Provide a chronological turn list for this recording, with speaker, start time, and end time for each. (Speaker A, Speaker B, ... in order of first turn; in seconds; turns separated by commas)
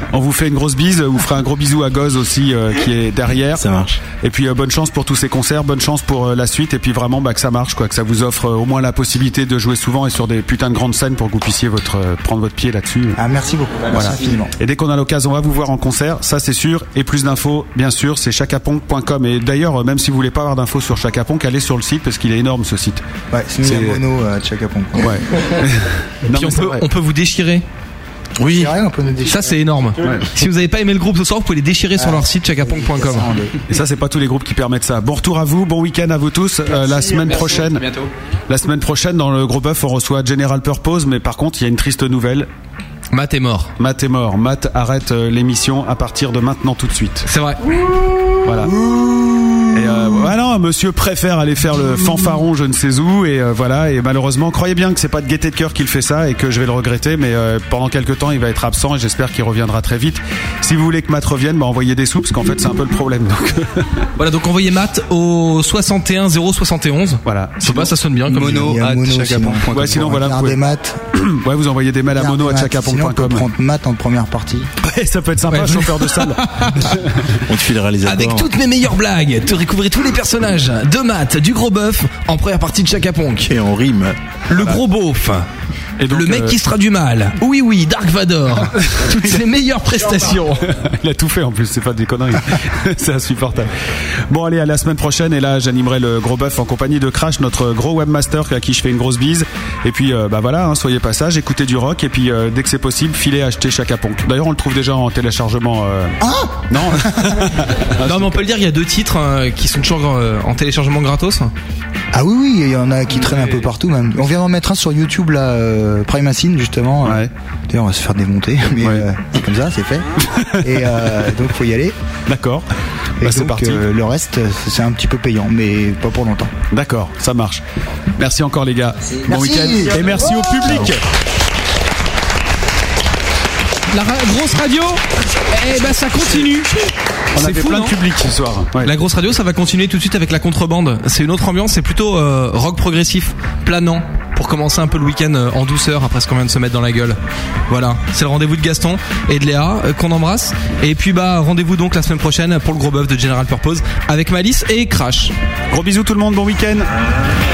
Speaker A: 0.1-3.6, Speaker B: 3.5-4.0, Speaker A: 4.2-13.2, Speaker C: 13.2-14.5, Speaker A: 13.9-23.0, Speaker C: 23.3-25.2, Speaker A: 23.6-24.0, Speaker A: 25.0-26.9, Speaker D: 26.3-27.6, Speaker B: 28.4-28.8, Speaker C: 28.4-29.6, Speaker D: 29.3-33.3, Speaker A: 30.0-30.3, Speaker C: 32.0-33.5, Speaker A: 33.7-37.9, Speaker E: 36.8-38.1, Speaker A: 38.5-42.5, Speaker D: 43.1-43.7, Speaker A: 43.8-47.3, Speaker D: 47.2-47.8, Speaker A: 48.5-48.8, Speaker C: 48.8-49.6, Speaker A: 49.7-63.9, Speaker D: 64.2-68.8, Speaker A: 67.2-67.9, Speaker E: 68.3-70.3, Speaker C: 68.5-71.0, Speaker A: 69.7-70.6, Speaker A: 71.1-73.5, Speaker C: 72.2-74.7, Speaker A: 74.8-77.4, Speaker D: 75.5-77.0, Speaker B: 77.5-78.5, Speaker D: 78.0-83.5, Speaker B: 83.5-84.2, Speaker D: 84.5-85.5, Speaker A: 84.5-84.8, Speaker A: 86.0-86.6, Speaker D: 86.1-90.7, Speaker A: 89.1-89.4, Speaker A: 90.7-106.2, Speaker C: 106.2-107.4, Speaker A: 106.7-108.4, Speaker D: 108.0-111.5, Speaker C: 112.1-120.1, Speaker E: 113.2-113.6, Speaker A: 117.0-117.3, Speaker A: 118.8-119.0, Speaker A: 120.4-121.1, Speaker C: 120.6-122.0, Speaker A: 122.3-122.7, Speaker C: 123.2-126.5, Speaker A: 123.2-123.8, Speaker A: 126.7-127.6, Speaker A: 128.2-131.0, Speaker C: 129.3-130.9, Speaker D: 133.9-136.7, Speaker A: 137.3-138.9, Speaker D: 137.3-137.9, Speaker D: 138.8-147.2, Speaker D: 147.7-155.3, Speaker A: 155.7-156.9